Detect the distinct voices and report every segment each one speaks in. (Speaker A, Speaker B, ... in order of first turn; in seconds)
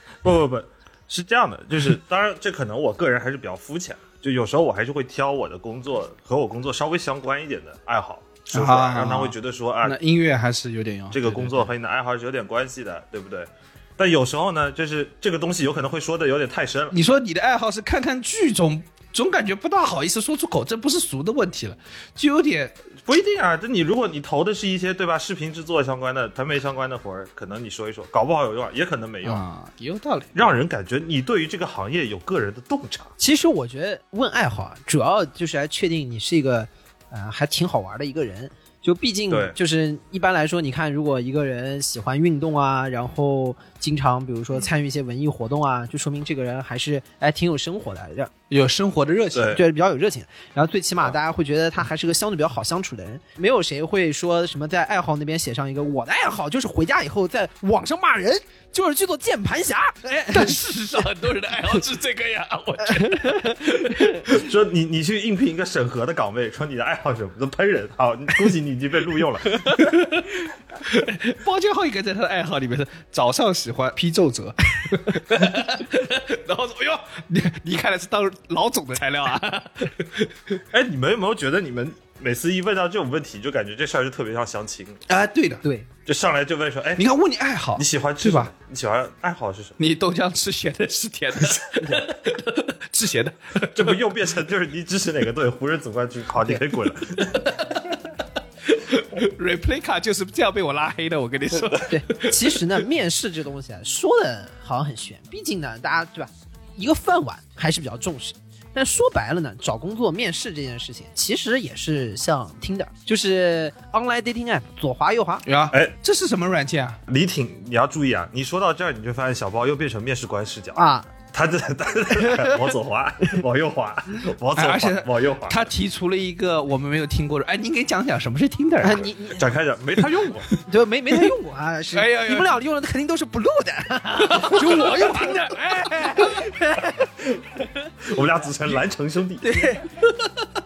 Speaker A: 0.2-10.0, 11.1-17.0, 23.1-29.4, 30.4-33.1, 39.3-39.6, 49.3-49.6, 64.3-69.9, 80.7-85.0, 86.1-87.1, 87.8-89.8, 93.7-97.7, 117.1-125.7, 129.3-130.5, 138.0-139.8
Speaker B: 8.5-11.7, 16.9-22.8, 29.2-30.5, 48.5-49.6, 60.3-64.3, 69.8-70.3, 70.8-80.6, 85.1-85.6, 87.0-88.5, 89.8-93.9, 98.7-102.7, 115.5-117.0, 124.5-129.1, 131.9-132.6, 134.2-136.4
Speaker C: 33.2-48.3, 49.5-60.6, 62.9-63.7, 85.6-85.9, 101.9-115.4, 120.8-121.1, 122.2-122.6, 128.8-129.5, 130.6-137.1, 139.4-140.0